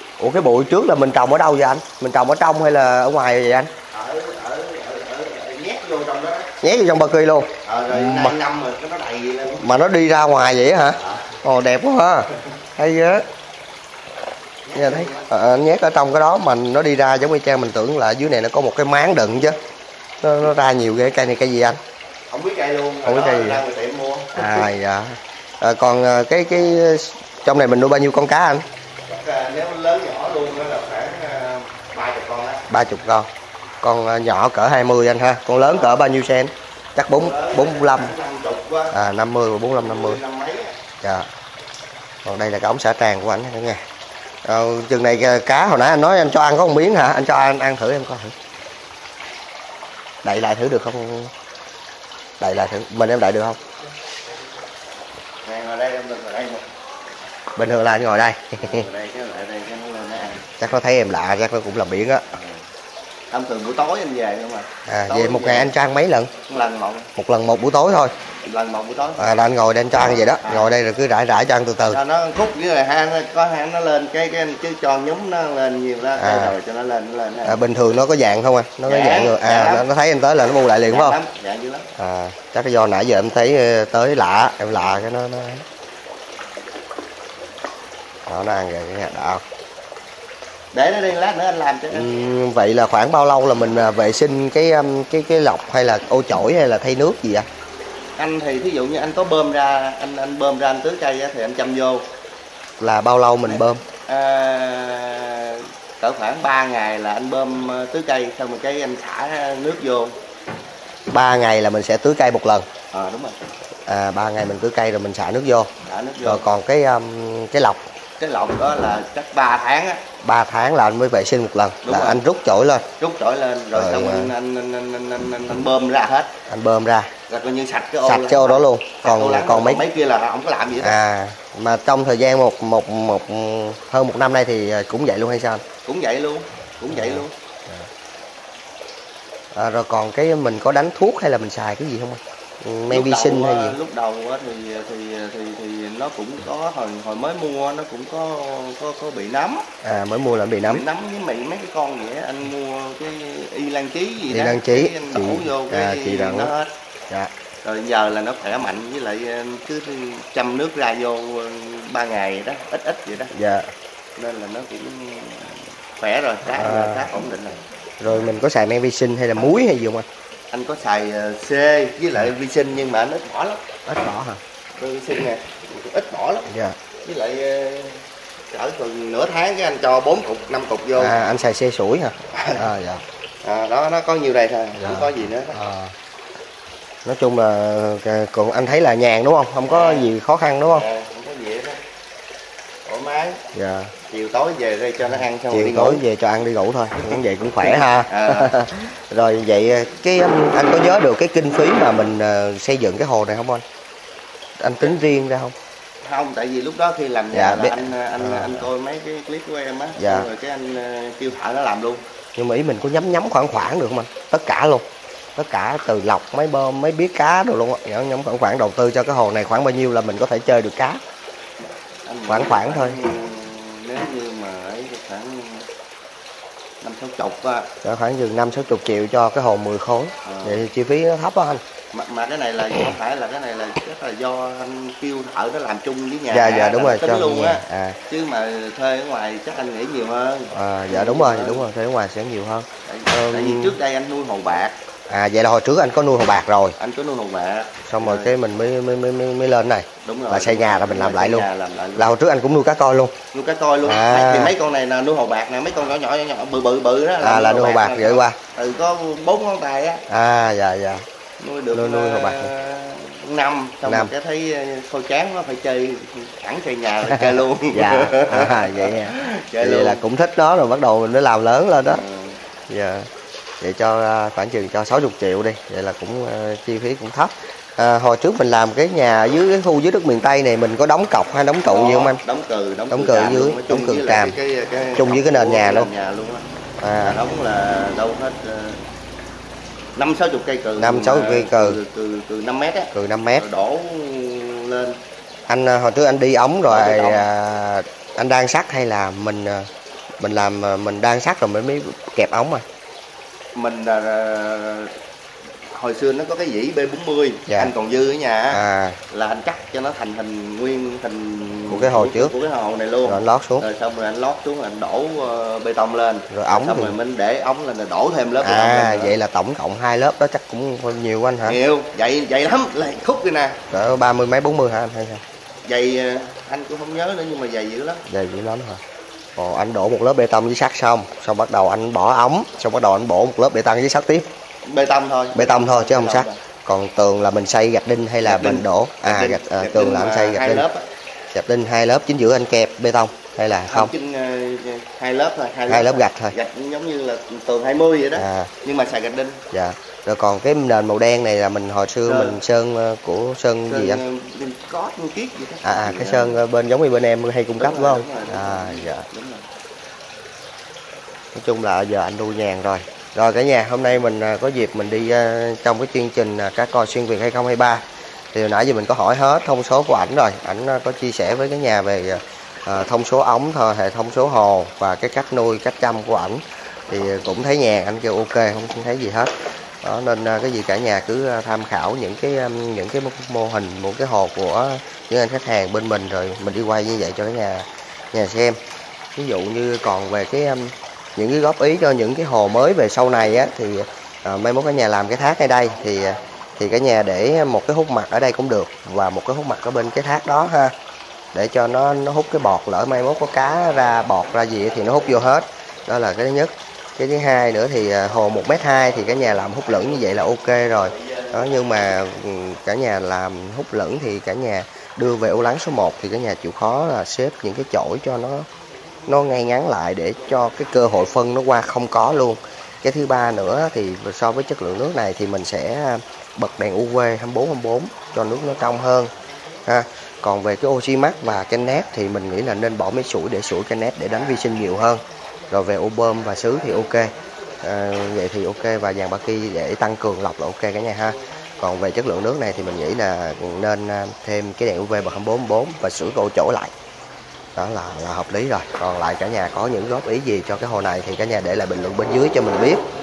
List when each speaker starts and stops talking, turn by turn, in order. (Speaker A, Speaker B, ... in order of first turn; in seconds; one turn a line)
Speaker A: 0.2-3.7
Speaker B: 3.9-6.5
Speaker A: 6.6-8.4
Speaker B: 7.6-9.6
Speaker A: 9.6-13.2
Speaker B: 14.7-15.3
Speaker A: 14.7-19.6
Speaker A: 20.2-21.8
Speaker B: 22.3-24.7
Speaker A: 23.0-23.6
Speaker A: 24.3-28.6
Speaker B: 29.1-32.6
Speaker A: 32.7-33.3
Speaker A: 33.8-38.1
Speaker B: 37.1-38.9
Speaker A: 38.9-40.2
Speaker B: 39.7-40.7
Speaker A: 41.0-41.3
Speaker A: 42.2-43.8
Speaker A: 44.4-48.3
Speaker A: 50.2-51.3
Speaker A: 52.4-53.6
Speaker B: 55.4-56.7
Speaker A: 57.5-58.9
Speaker B: 58.6-60.5
Speaker A: 60.6-62.2
Speaker B: 62.3-62.6
Speaker B: 63.3-65.7
Speaker A: 64.9-66.3
Speaker B: 66.5-67.1
Speaker A: 67.2-68.1
Speaker B: 68.4-69.3
Speaker A: 69.2-72.0
Speaker B: 69.9-70.8
Speaker B: 71.9-77.6
Speaker A: 76.2-76.5
Speaker A: 77.5-81.2
Speaker B: 78.8-79.9
Speaker B: 80.9-81.9
Speaker A: 81.9-85.6
Speaker A: 88.3-89.4
Speaker B: 90.7-92.1
Speaker A: 91.9-97.5
Speaker B: 98.2-102.1
Speaker A: 102.8-103.8
Speaker B: 104.1-110.1
Speaker A: 111.1-112.7
Speaker B: 112.9-113.3
Speaker A: 113.9-115.7
Speaker B: 115.8-116.5
Speaker A: 116.2-117.8
Speaker B: 118.2-120.0
Speaker A: 120.2-122.9
Speaker B: 121.8-122.2
Speaker B: 123.0-126.3
Speaker A: 123.7-124.3
Speaker A: 126.5-127.1
Speaker B: 127.3-131.0
Speaker A: 128.0-129.8
Speaker A: 130.8-135.6
Speaker B: 135.8-137.3
Speaker A: 136.9-137.9
Speaker A: 139.5-143.8
Speaker B: 142.9-149.7
Speaker A: 149.8-150.8
Speaker B: 150.7-156.7
Speaker A: 154.3-156.5
Speaker B: 157.6-163.3
Speaker A: 163.3-163.7
Speaker B: 164.2-167.6
Speaker A: 166.5-167.0
Speaker A: 168.0-170.1
Speaker B: 170.5-173.6
Speaker A: 173.8-174.4
Speaker B: 174.8-176.5
Speaker A: 176.5-176.8
Speaker B: 177.0-181.2
Speaker A: 180.9-183.0
Speaker B: 183.4-185.6
Speaker A: 184.8-185.9
Speaker A: 187.0-190.9
Speaker B: 189.6-190.1
Speaker B: 190.7-191.8
Speaker B: 192.8-193.4
Speaker A: 193.5-193.9
Speaker B: 194.1-196.0
Speaker A: 195.5-203.6
Speaker B: 197.0-198.5
Speaker A: 204.6-205.5
Speaker B: 206.0-212.0
Speaker A: 207.3-208.7
Speaker A: 210.0-210.3
Speaker A: 212.3-214.8
Speaker A: 215.3-221.0
Speaker B: 222.0-225.7
Speaker A: 222.3-223.0
Speaker B: 226.8-227.7
Speaker A: 227.8-231.6
Speaker B: 230.2-230.7
Speaker B: 231.9-241.7
Speaker A: 236.3-238.0
Speaker A: 240.5-243.8
Speaker B: 242.9-244.8
Speaker A: 245.1-246.8
Speaker B: 246.8-248.3
Speaker A: 247.8-253.2
Speaker B: 250.0-252.1
Speaker B: 253.3-260.0
Speaker A: 253.8-254.5
Speaker A: 257.2-258.4
Speaker A: 260.1-261.0
Speaker B: 261.4-270.0
Speaker A: 261.7-262.5
Speaker A: 263.8-264.1
Speaker A: 267.7-272.0
Speaker B: 271.8-272.4
Speaker A: 272.7-273.1
Speaker A: 273.6-282.2
Speaker B: 281.6-286.4
Speaker A: 282.9-284.4
Speaker A: 284.9-285.9
Speaker A: 286.8-287.2
Speaker B: 287.0-288.8
Speaker B: 289.9-295.0
Speaker A: 290.8-291.8
Speaker A: 292.9-293.4
Speaker A: 295.5-299.7
Speaker B: 296.7-297.3
Speaker A: 300.2-302.6
Speaker B: 303.5-304.9
Speaker B: 305.7-319.2
Speaker A: 307.5-307.7
Speaker A: 308.5-309.0
Speaker A: 311.7-312.3
Speaker A: 313.0-313.6
Speaker A: 316.3-316.9
Speaker A: 318.4-321.6
Speaker B: 321.4-323.6
Speaker A: 323.7-325.2
Speaker B: 325.6-328.0
Speaker A: 328.1-328.8
Speaker A: 329.4-334.3
Speaker B: 334.6-336.4
Speaker A: 335.3-340.6
Speaker B: 338.2-340.9
Speaker A: 341.3-343.9
Speaker B: 343.7-349.4
Speaker A: 345.7-346.4
Speaker A: 348.1-348.5
Speaker A: 349.5-354.0
Speaker B: 352.0-352.4
Speaker B: 353.7-356.4
Speaker A: 355.6-359.1
Speaker B: 357.6-359.4
Speaker A: 361.3-367.8
Speaker A: 368.3-379.3
Speaker A: 379.8-388.6
Speaker A: 389.1-400.7
Speaker A: 401.3-418.5
Speaker B: 403.6-405.2
Speaker B: 408.1-412.0
Speaker A: 419.1-429.1
Speaker A: 429.6-446.7
Speaker A: 447.6-452.8